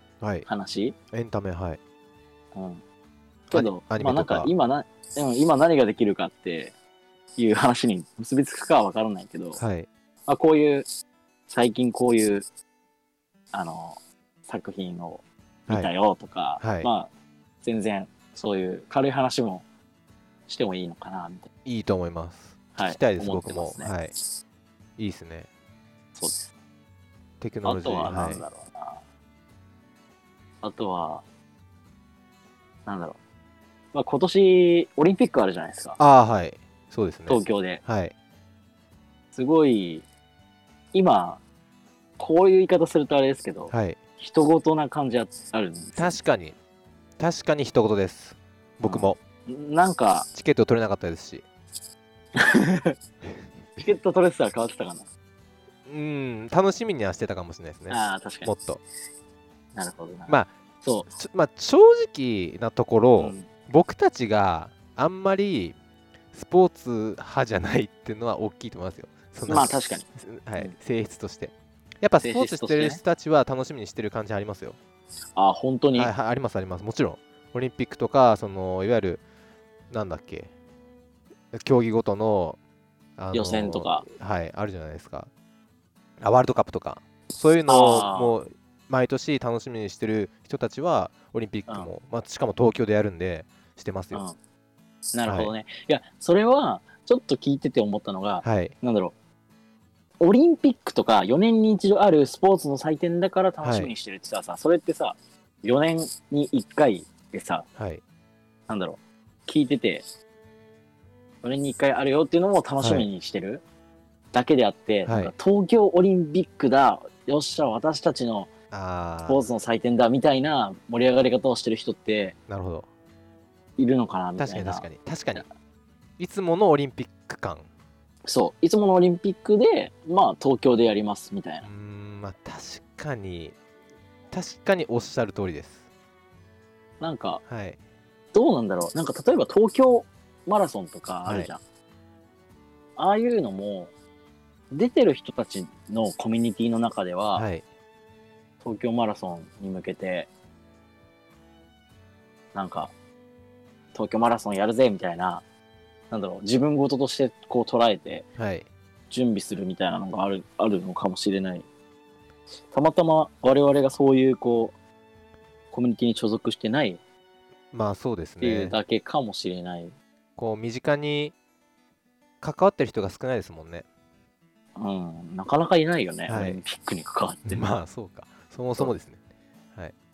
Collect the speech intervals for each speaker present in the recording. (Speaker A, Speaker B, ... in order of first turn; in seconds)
Speaker A: 0.2-0.5, 1.1-1.8, 3.5-4.5, 9.6-9.9, 16.6-16.9, 21.6-24.1, 25.0-25.5, 27.4-28.4, 36.0-38.1, 43.7-44.0, 46.0-46.5, 47.2-49.2, 50.3-51.5, 55.9-58.8, 61.2-65.8, 66.3-74.8, 76.0-79.2, 79.9-80.5, 81.5-82.6, 83.2-85.3, 86.2-94.2, 95.3-95.5, 98.4-98.8, 103.6-103.9, 112.8-113.1, 115.1-115.3, 118.7-119.4, 122.5-122.9, 124.4-125.5, 126.2-127.7, 131.6-133.6, 134.3-135.8, 137.5-137.8, 141.3-141.5, 147.4-147.6, 158.4-158.7, 167.7-168.8, 170.4-171.3, 172.4-173.9, 176.3-176.6, 177.5-179.2
Speaker B: 0.5-1.0, 2.5-2.8, 3.5-6.8, 7.4-9.6, 10.3-10.9, 11.5-12.4, 13.5-17.1, 17.6-19.6, 20.5-21.5, 22.8-24.0, 26.1-26.5, 27.6-29.0, 30.6-31.2, 32.9-33.2, 33.9-36.0, 37.3-37.8, 39.3-40.0, 40.9-41.4, 42.2-46.2, 48.8-50.3, 52.4-53.0, 53.8-55.1, 57.9-58.5, 59.8-61.1, 63.2-63.5, 69.5-70.8, 72.2-73.0, 75.3-76.1, 83.3-84.1, 87.7-88.4, 95.1-99.2, 100.2-107.7, 108.7-110.0, 111.4-113.6, 114.3-118.5, 119.3-122.4, 123.8-125.5, 128.3-131.7, 137.0-137.4, 138.3-141.6, 143.0-143.9, 144.7-147.5, 148.6-150.3, 152.5-152.9, 153.9-155.4, 156.1-158.3, 159.1-161.7, 162.6-164.8, 165.7-167.0, 168.4-169.9, 174.8-177.8